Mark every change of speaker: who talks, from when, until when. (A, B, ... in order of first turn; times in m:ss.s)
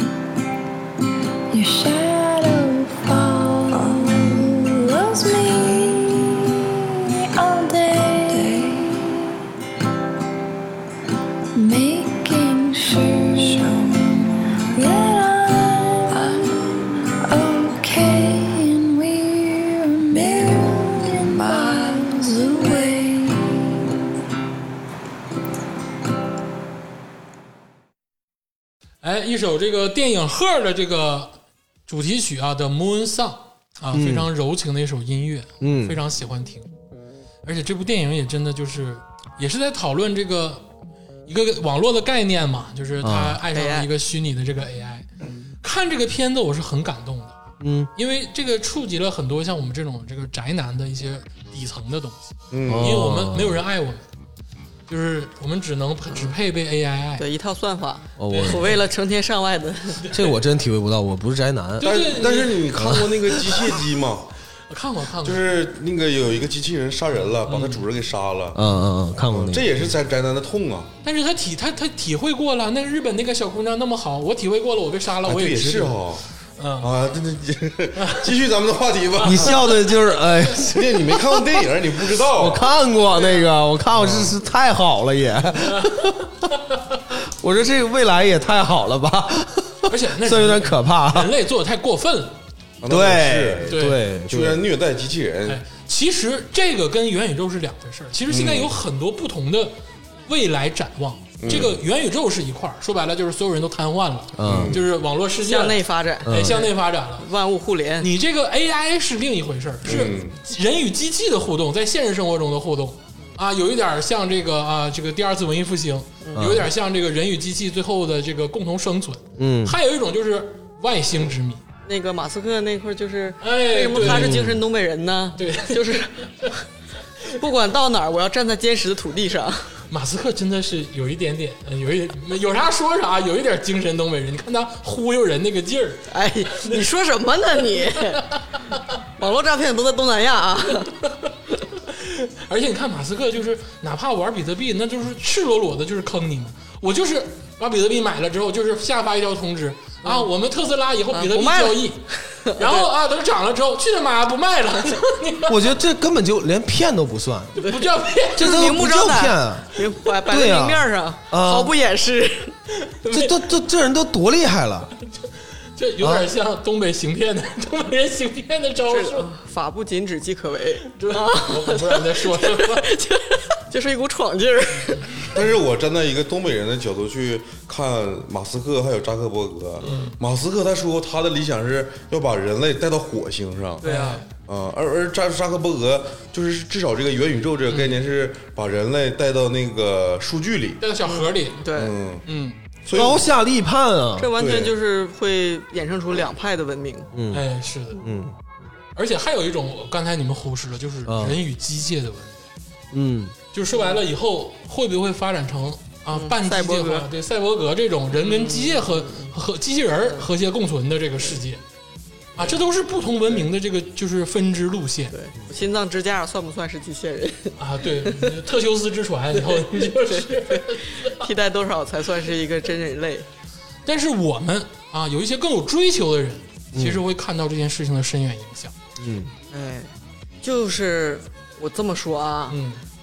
0:01.5-0:09.4 A
0:11.5-0:24.0 A
0:29.0-0:31.3 B
0:31.9-0:36.7 B
0:33.9-0:34.3 C
0:35.6-0:36.0 C
0:37.4-0:40.6 B
0:41.3-0:45.1 B
0:43.0-0:43.4 C
0:43.5-0:43.9 D
0:45.6-0:47.4 B
0:47.6-0:47.9 C
0:48.0-0:54.0 B
0:52.5-0:52.9 E
0:52.6-0:53.6 C
0:54.9-0:57.2 B
0:56.1-0:56.3 D
0:57.2-1:00.0 D
0:58.2-0:58.7 C
0:58.3-0:58.8 B
1:00.0-1:00.3 B
1:00.1-1:02.0 C
1:01.8-1:03.6 B
1:01.8-1:04.3 E
1:04.7-1:05.5 B
1:05.2-1:08.6 E
1:07.4-1:07.8 B
1:08.5-1:09.8 C
1:09.3-1:10.9 E
1:11.0-1:16.0 B
1:15.2-1:16.2 E
1:16.6-1:16.9 B
1:16.8-1:19.6 E
1:18.0-1:18.3 B
1:19.2-1:19.5 B
1:19.2-1:26.5 C
1:20.6-1:22.6 E
1:24.0-1:24.2 E
1:25.5-1:27.0 B
1:27.1-1:31.3 C
1:29.9-1:32.4 B
1:32.8-1:35.6 E
1:32.8-1:34.6 C
1:33.7-1:34.0 B
1:35.4-1:39.8 B
1:38.3-1:38.7 E
1:40.3-1:47.2 B
1:41.4-1:41.8 E
1:44.4-1:44.8 C
1:44.4-1:44.8 E
1:45.4-1:48.1 D
1:46.2-1:46.6 C
1:48.0-2:01.6 B
1:49.8-1:50.3 E
1:56.2-1:56.5 D
1:56.4-1:56.7 C
1:59.4-1:59.8 C
2:01.8-2:06.6 D
2:03.4-2:04.4 B
2:04.0-2:04.6 C
2:05.4-2:06.5 B
2:07.3-2:09.7 D
2:09.9-2:16.8 B
2:16.1-2:18.2 D
2:18.3-2:18.8 B
2:19.2-2:20.9 D
2:21.8-2:35.7 B
2:30.0-2:30.3 D
2:31.1-2:32.9 D
2:35.5-2:37.6 C
2:37.6-2:38.7 B
2:37.6-2:42.5 D
2:38.4-2:39.7 C
2:40.3-2:41.7 C
2:42.8-2:43.4 B
2:43.1-2:44.9 C
2:45.1-2:49.3 B
2:46.0-2:46.3 C
2:48.9-2:55.1 D
2:50.9-2:52.9 B
2:55.3-3:03.8 E
2:59.8-3:00.2 B
3:03.8-3:04.2 D
3:03.8-3:04.2 B
3:04.4-3:10.8 E
3:07.7-3:08.0 B
3:10.8-3:11.6 B
3:11.0-3:11.9 D
3:11.7-3:12.2 E
3:12.2-3:12.6 B
3:12.8-3:13.2 E
3:12.9-3:14.3 C
3:14.2-3:17.1 D
3:14.4-3:14.7 E
3:17.1-3:17.4 C
3:17.3-3:18.0 B
3:18.0-3:18.4 C
3:19.0-3:22.5 B
3:21.0-3:21.4 C
3:22.9-3:23.3 C
3:23.5-3:31.6 B
3:23.7-3:24.0 D
3:26.1-3:27.1 D
3:28.1-3:29.3 D
3:32.4-3:35.1 B
3:35.1-3:38.3 D
3:37.6-3:41.2 B
3:39.4-3:43.2 D
3:43.8-3:48.7 B
3:46.7-3:47.0 C
3:49.0-3:49.3 C
3:49.5-3:49.9 D
3:50.4-3:52.6 D
3:52.5-3:52.8 B